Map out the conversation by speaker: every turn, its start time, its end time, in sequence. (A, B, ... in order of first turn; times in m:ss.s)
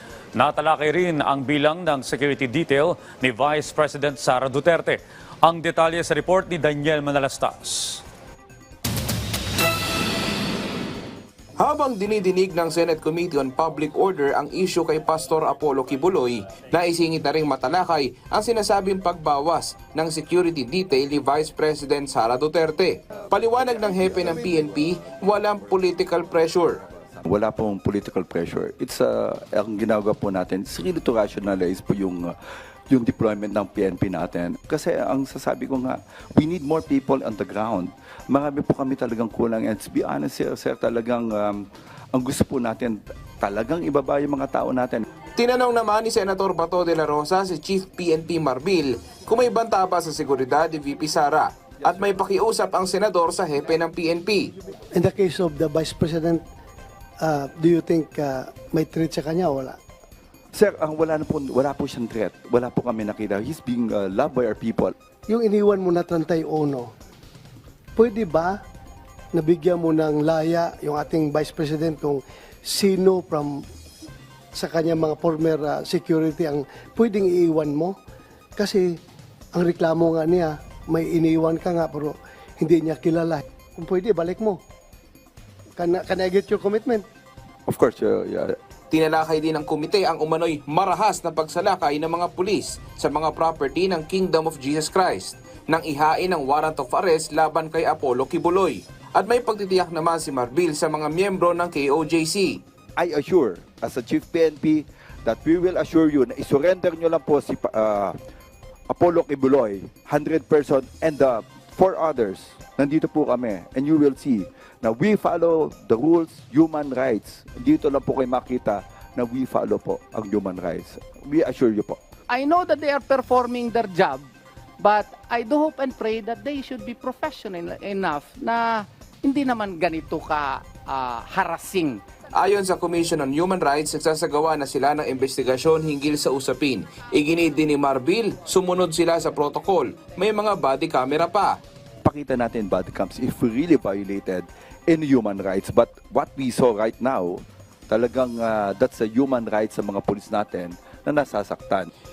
0:00.4-0:08.0 A
0:11.6-0:26.8 B
0:27.2-0:32.4 C
0:32.9-0:45.0 C
0:45.4-0:54.5 B
0:54.9-0:56.4 D
0:57.2-0:59.8 D
1:00.5-1:04.9 C
1:05.3-1:06.9 D
1:08.0-1:08.6 D
1:09.3-1:13.6 D
1:14.5-1:18.0 D
1:18.6-1:19.0 D
1:19.5-1:24.6 D
1:25.8-1:27.0 D
1:27.7-1:28.6 C
1:28.9-1:42.6 B
1:43.0-1:48.2 C
1:48.9-2:02.0 C
2:02.3-2:04.3 E
2:04.8-2:12.0 E
2:12.4-2:21.6 B
2:22.0-2:31.9 C